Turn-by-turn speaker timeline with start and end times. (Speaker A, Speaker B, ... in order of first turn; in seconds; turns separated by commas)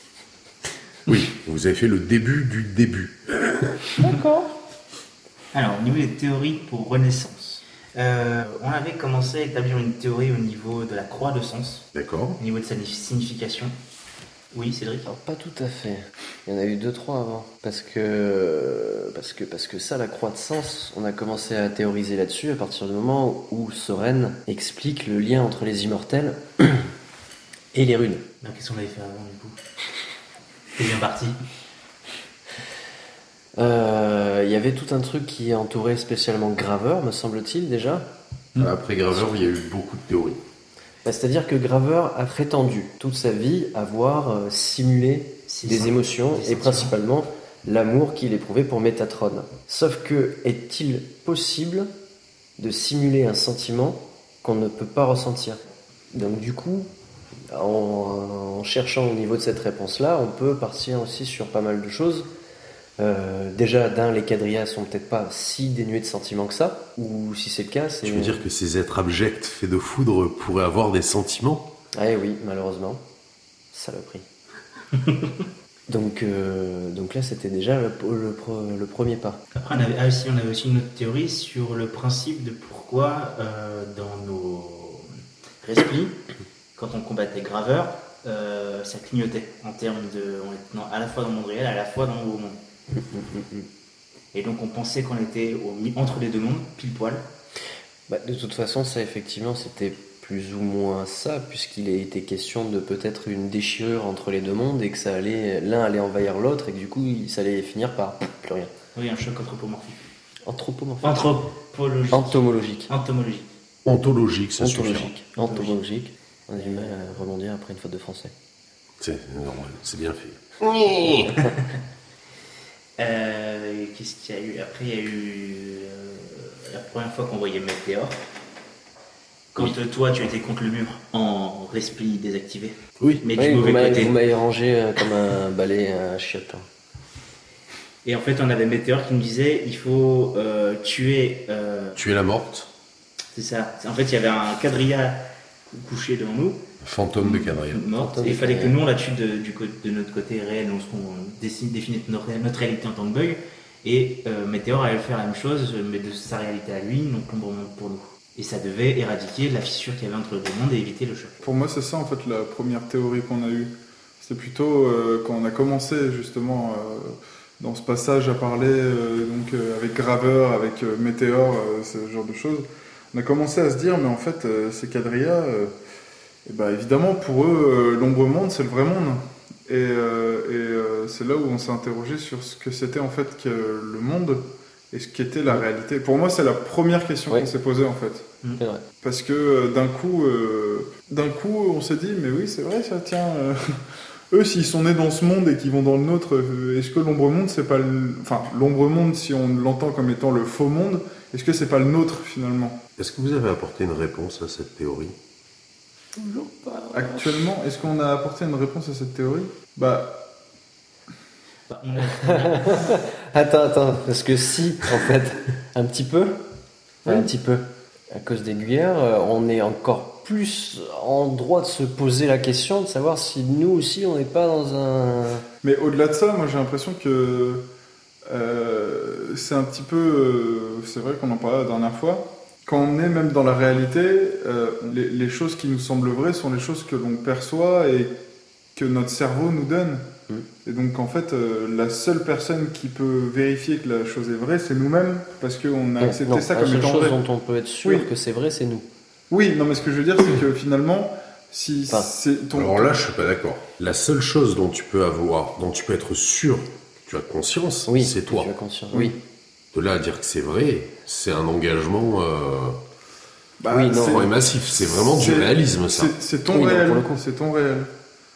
Speaker A: 1.1-4.0, Speaker B: 4.0-4.5, Speaker C: 5.5-11.9, Speaker A: 11.9-12.4, Speaker C: 12.4-13.7, Speaker C: 14.5-15.1, Speaker B: 15.1-26.9, Speaker B: 27.7-28.2, Speaker C: 28.4-29.6, Speaker C: 30.8-31.4, Speaker B: 33.6-38.1, Speaker A: 38.6-40.4, Speaker B: 41.0-51.9, Speaker C: 45.5-46.9, Speaker B: 52.6-55.6, Speaker B: 56.1-56.9, Speaker B: 57.5-62.3, Speaker B: 63.0-68.4, Speaker A: 68.0-71.7, Speaker B: 72.0-73.0, Speaker B: 73.7-74.2, Speaker B: 75.9-79.4, Speaker C: 79.5-85.1, Speaker C: 85.6-86.2, Speaker C: 86.8-92.6, Speaker B: 92.9-93.7, Speaker C: 94.3-97.2, Speaker B: 98.1-108.7, Speaker C: 109.0-110.0, Speaker B: 110.5-111.3, Speaker C: 111.0-113.5, Speaker B: 112.1-112.9, Speaker A: 113.8-115.1, Speaker B: 114.6-118.3, Speaker C: 115.4-115.8, Speaker C: 116.6-117.1, Speaker A: 119.0-121.3, Speaker B: 121.0-121.5, Speaker C: 121.2-121.7, Speaker C: 123.0-128.2, Speaker C: 129.5-134.2, Speaker B: 133.4-136.7, Speaker C: 138.1-142.0, Speaker A: 141.9-142.7, Speaker C: 143.3-146.7, Speaker A: 146.8-147.8, Speaker C: 147.2-161.4, Speaker B: 147.9-148.8, Speaker D: 161.4-175.7, Speaker D: 176.5-188.3, Speaker D: 189.0-202.8, Speaker A: 203.0-205.2, Speaker B: 206.2-207.4, Speaker D: 206.9-210.2, Speaker C: 211.7-213.0, Speaker B: 212.2-216.4, Speaker B: 217.1-225.4, Speaker D: 225.6-227.6, Speaker D: 228.3-238.1, Speaker D: 238.8-240.1, Speaker D: 240.7-247.2, Speaker B: 246.0-248.9, Speaker D: 247.8-248.1, Speaker D: 249.3-253.1, Speaker A: 252.5-258.5, Speaker B: 257.9-259.2, Speaker A: 259.7-262.8, Speaker D: 263.6-267.9, Speaker B: 263.7-264.3, Speaker A: 263.9-266.1, Speaker B: 266.5-267.2